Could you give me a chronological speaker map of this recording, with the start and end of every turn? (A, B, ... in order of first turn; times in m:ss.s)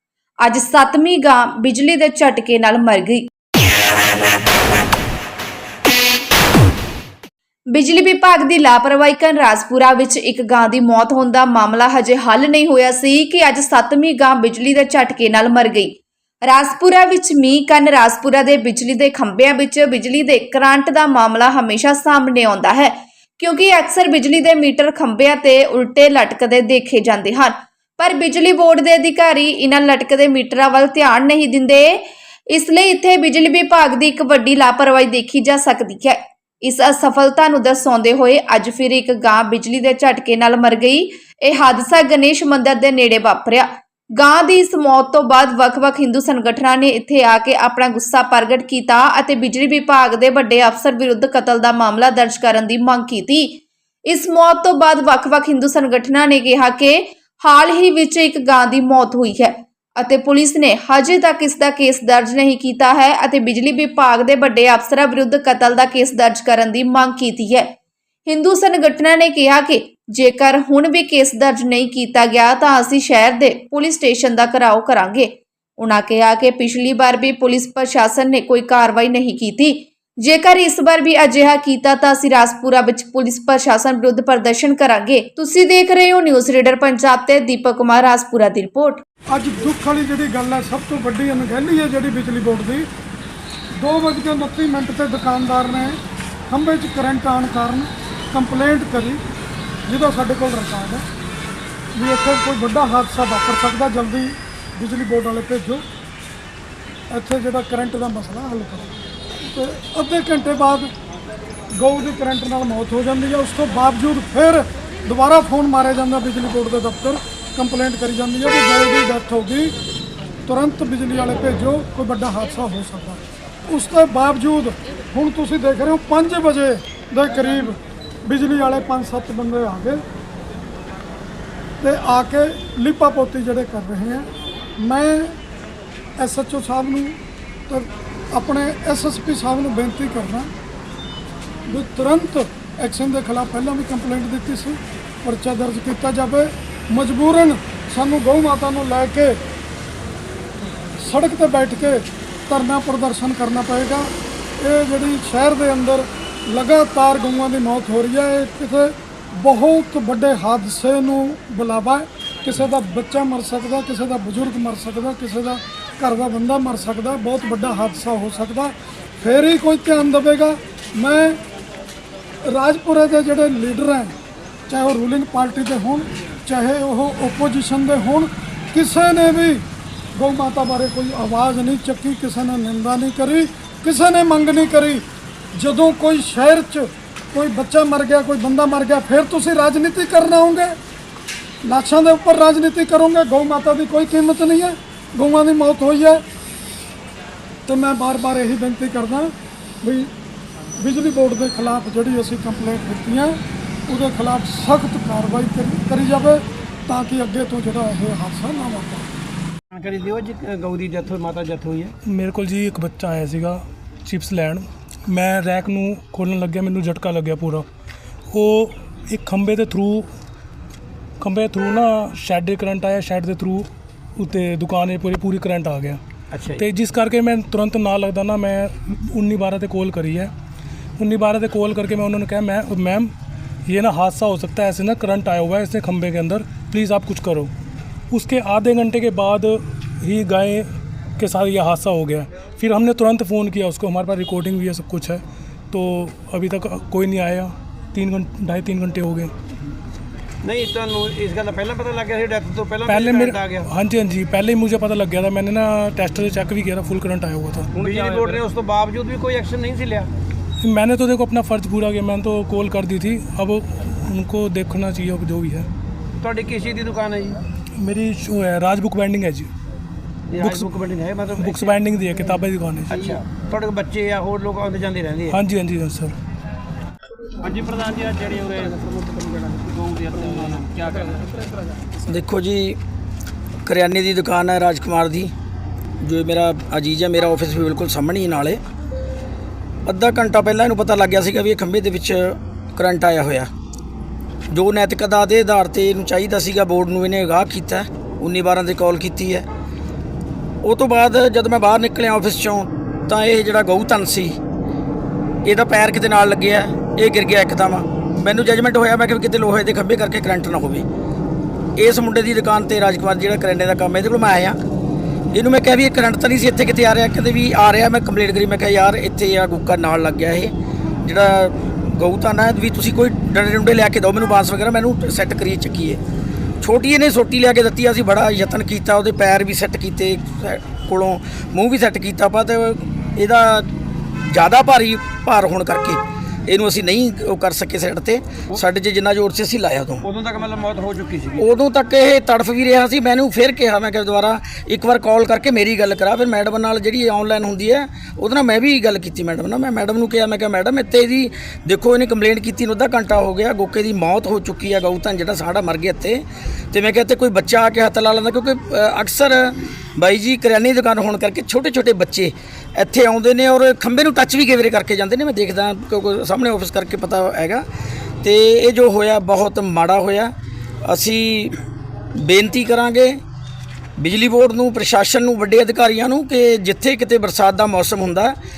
0:00.4-0:03.2 A
0:07.7-0:15.9 A
0:16.5-1:07.7 A
1:08.3-1:29.0 A
1:29.3-1:32.9 B
1:33.8-1:35.9 B
1:36.5-1:39.2 B
1:39.9-1:41.0 B
1:42.0-1:45.8 B
1:47.1-1:48.9 B
1:49.4-1:50.9 B
1:51.8-1:59.7 B
2:00.5-2:10.0 B
2:11.8-2:14.3 B
2:14.8-2:15.4 B
2:16.2-2:17.2 B
2:17.7-2:20.5 B
2:21.7-2:29.4 B
2:31.0-2:51.4 B
2:52.5-2:54.1 B
2:54.7-2:59.6 B
3:00.2-3:05.0 B
3:05.6-3:10.8 B
3:11.7-3:16.2 B
3:17.7-3:20.1 B
3:20.8-3:23.4 B
3:23.9-3:29.1 B
3:29.7-3:31.9 C
3:32.1-3:37.7 D
3:38.3-3:40.1 D
3:41.2-3:46.0 D
3:46.3-3:46.6 C
3:46.6-3:50.3 D
3:51.0-3:53.1 D
3:53.7-3:57.5 D
3:58.1-4:00.7 D
4:01.2-4:09.3 D
4:10.4-4:13.7 C
4:12.9-4:17.8 D
4:17.7-4:20.1 C
4:20.6-4:25.7 D
4:26.2-4:27.4 C
4:27.8-4:29.5 D
4:30.3-4:31.7 C
4:30.4-4:30.7 D
4:31.4-4:33.2 D
4:32.9-4:35.4 C
4:35.3-4:36.2 D
4:37.4-4:41.6 C
4:42.1-4:42.8 E
4:43.6-4:45.3 E
4:46.0-4:48.6 E
4:49.9-4:53.5 E
4:54.5-4:59.5 E
5:00.6-5:04.4 E
5:05.4-5:10.8 E
5:11.8-5:14.6 E
5:15.3-5:20.5 E
5:21.0-5:26.0 E
5:26.6-5:33.7 E
5:34.3-5:40.0 E
5:40.0-5:41.4 C
5:41.4-6:07.6 E
6:08.2-6:10.3 E
6:10.8-6:11.6 E
6:12.2-6:13.2 E
6:14.0-6:18.4 E